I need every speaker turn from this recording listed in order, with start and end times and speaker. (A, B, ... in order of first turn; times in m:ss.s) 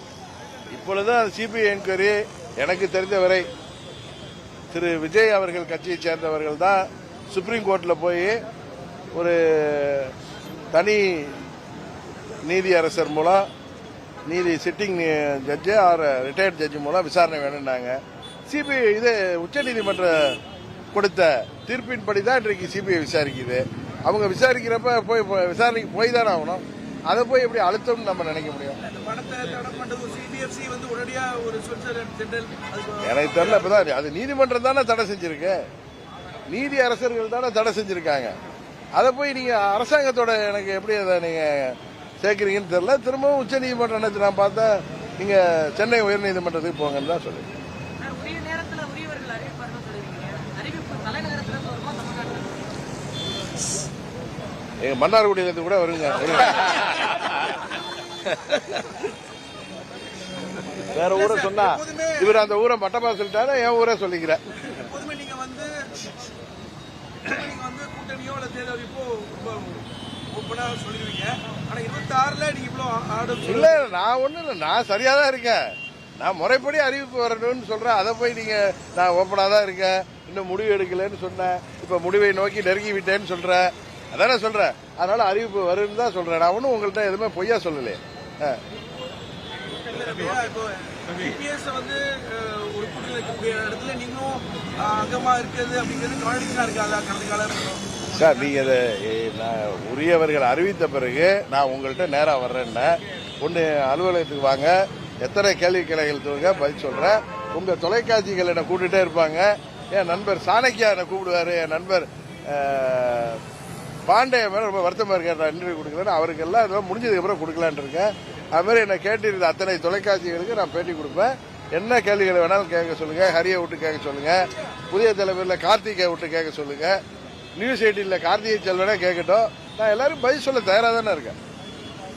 0:00.7-0:03.5 A
0:04.7-0:08.4 A
0:09.1-0:10.1 A
0:10.7-0:11.4 A
0:12.5-0:13.5 A
0:14.3-0:20.4 A
0:20.9-0:28.8 A
0:28.8-0:33.9 B
0:33.0-0:35.6 A
0:36.5-0:38.3 A
0:39.0-0:47.5 A
0:48.0-0:52.7 C
0:54.8-0:57.6 A
0:58.3-0:58.8 A
1:00.9-1:04.4 A
1:01.1-1:02.5 B
1:04.6-1:05.8 B
1:07.2-1:13.9 B
1:13.4-1:28.6 A
1:29.8-1:38.3 B
1:38.1-1:53.4 A
1:54.1-2:07.0 A
2:07.6-2:11.4 A